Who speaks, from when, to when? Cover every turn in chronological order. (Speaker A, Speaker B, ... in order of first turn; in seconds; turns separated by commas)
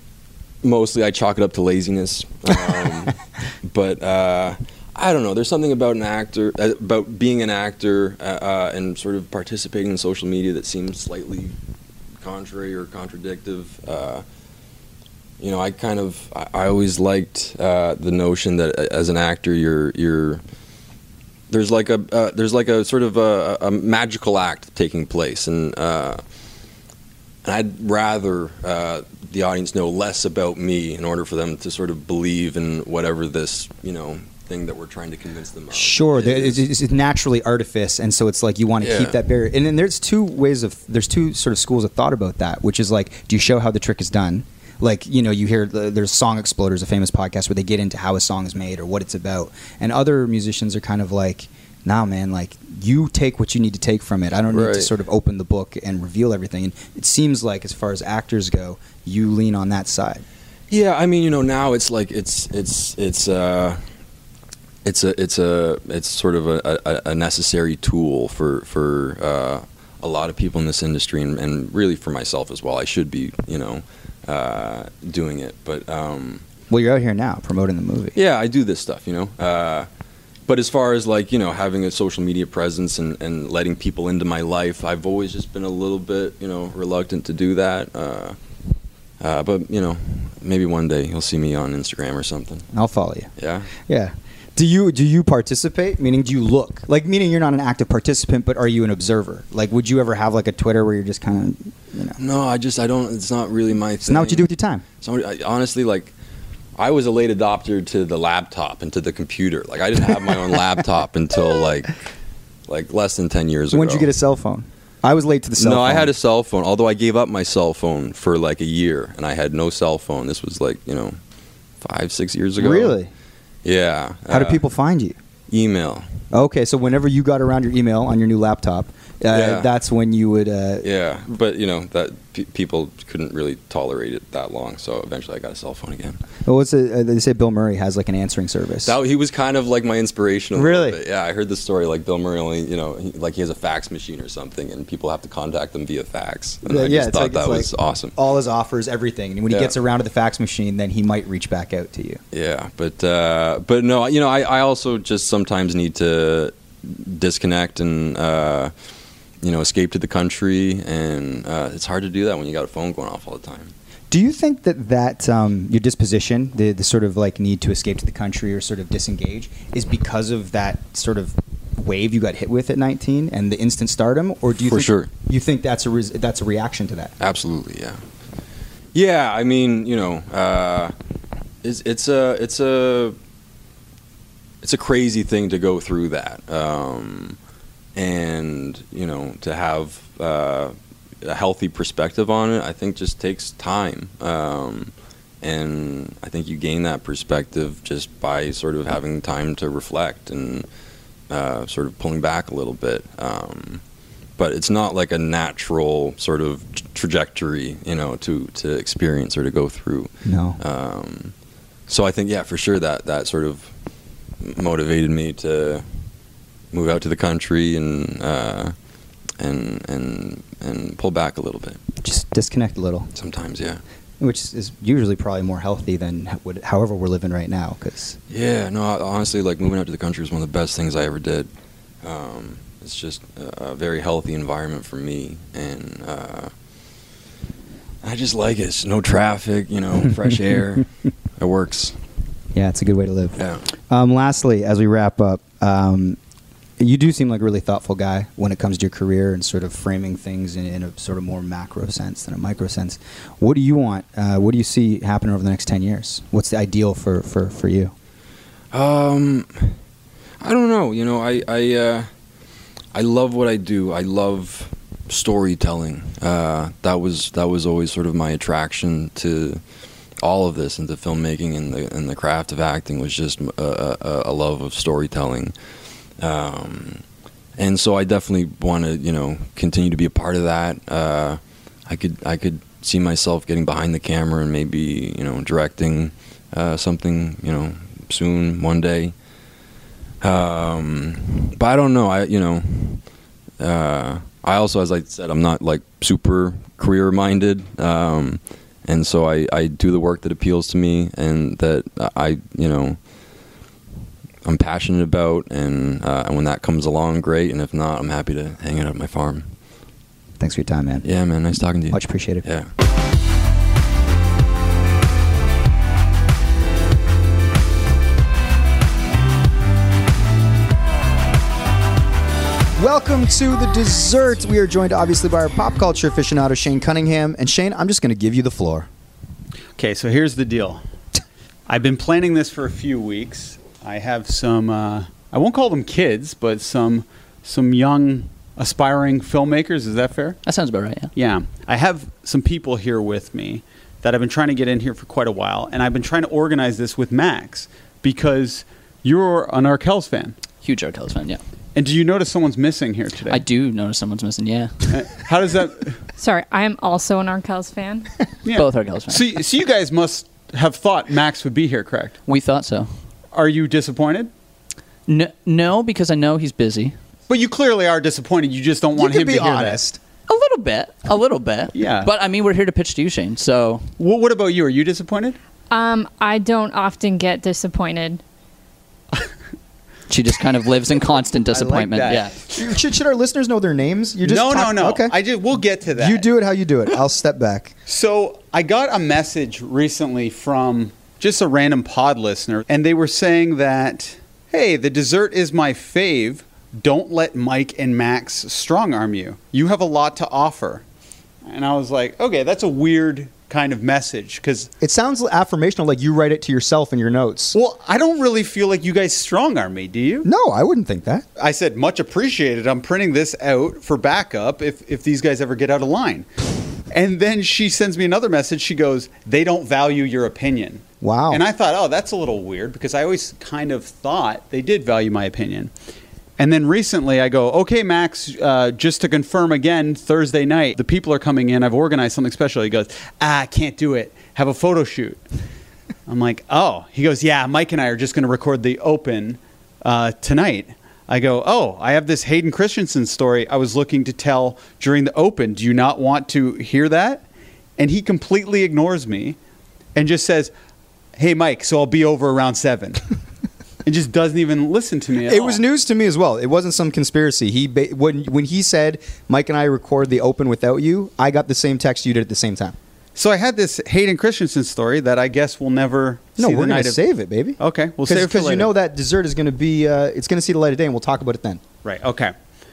Speaker A: 0.6-11.6, Speaker A: 12.2-14.2, Speaker A: 15.4-20.4, Speaker A: 21.5-26.2, Speaker A: 27.4-36.6, Speaker B: 35.7-60.2, Speaker A: 38.8-39.2, Speaker A: 54.5-54.9, Speaker A: 60.7-63.8, Speaker A: 64.8-76.4, Speaker B: 76.7-78.2, Speaker A: 78.2-79.9, Speaker A: 80.5-88.4, Speaker A: 89.2-92.7, Speaker B: 92.7-102.2, Speaker A: 93.4-93.7, Speaker A: 102.2-104.5, Speaker B: 104.0-104.8, Speaker A: 105.0-106.1, Speaker A: 106.8-112.0, Speaker A: 112.7-114.1, Speaker B: 113.7-116.1, Speaker A: 115.6-121.2, Speaker A: 121.8-123.0, Speaker B: 122.6-123.1, Speaker A: 123.6-124.6, Speaker B: 124.3-125.2, Speaker A: 125.5-126.1, Speaker B: 126.3-130.9, Speaker A: 129.3-129.7, Speaker A: 130.8-136.2, Speaker B: 136.4-138.9, Speaker A: 138.8-148.1, Speaker B: 140.6-141.0, Speaker B: 146.7-152.2, Speaker A: 152.3-158.7, Speaker A: 159.4-163.7, Speaker B: 164.1-177.1, Speaker A: 174.6-175.1, Speaker A: 177.2-178.0, Speaker A: 178.9-180.9, Speaker A: 181.6-183.2, Speaker A: 184.6-187.4, Speaker A: 187.9-200.7, Speaker A: 201.3-203.8, Speaker A: 204.4-211.3, Speaker B: 210.2-210.6, Speaker A: 211.9-213.7, Speaker A: 214.4-215.9, Speaker A: 216.7-218.7, Speaker A: 219.4-221.8, Speaker B: 222.0-223.1, Speaker A: 223.2-223.8, Speaker B: 224.2-228.2, Speaker A: 228.3-231.5, Speaker A: 232.0-236.5, Speaker A: 238.0-242.0, Speaker B: 242.5-246.2, Speaker A: 243.4-243.7, Speaker B: 246.8-257.9, Speaker A: 258.7-259.8, Speaker A: 260.4-262.1, Speaker A: 262.9-269.6, Speaker A: 270.2-275.6, Speaker A: 276.2-277.0, Speaker A: 277.6-289.1, Speaker A: 290.2-293.1, Speaker A: 293.6-303.0, Speaker A: 304.4-309.5, Speaker B: 310.4-311.1, Speaker A: 311.0-312.7, Speaker B: 311.9-312.4, Speaker B: 322.8-328.9, Speaker C: 329.8-330.8, Speaker C: 331.7-340.4, Speaker D: 340.4-341.1, Speaker C: 341.1-350.4, Speaker D: 350.6-351.4, Speaker C: 351.8-353.4, Speaker D: 353.3-355.2, Speaker C: 354.9-356.0, Speaker E: 356.2-358.2, Speaker C: 358.4-362.2, Speaker D: 358.5-359.3, Speaker D: 362.2-363.1, Speaker C: 363.3-364.3, Speaker D: 365.1-367.0, Speaker C: 367.3-369.8, Speaker B: 369.0-370.0, Speaker D: 370.3-373.9, Speaker C: 371.7-372.1, Speaker C: 374.0-375.4, Speaker E: 375.7-378.2, Speaker D: 380.1-382.3, Speaker C: 381.5-382.3, Speaker B: 382.5-385.2, Speaker C: 384.2-386.3, Speaker B: 386.0-387.7, Speaker C: 387.9-400.8, Speaker C: 401.5-404.7, Speaker B: 404.8-407.6, Speaker C: 407.5-410.3, Speaker B: 410.2-411.3, Speaker C: 411.4-416.3, Speaker C: 416.9-425.7, Speaker B: 421.0-421.4, Speaker C: 426.4-435.2, Speaker C: 436.1-447.2, Speaker C: 447.8-449.4, Speaker C: 449.9-450.5, Speaker C: 451.2-453.0, Speaker C: 453.8-455.6, Speaker B: 455.2-462.8, Speaker C: 463.2-467.0, Speaker B: 466.4-471.6, Speaker C: 467.6-468.7, Speaker C: 471.8-472.3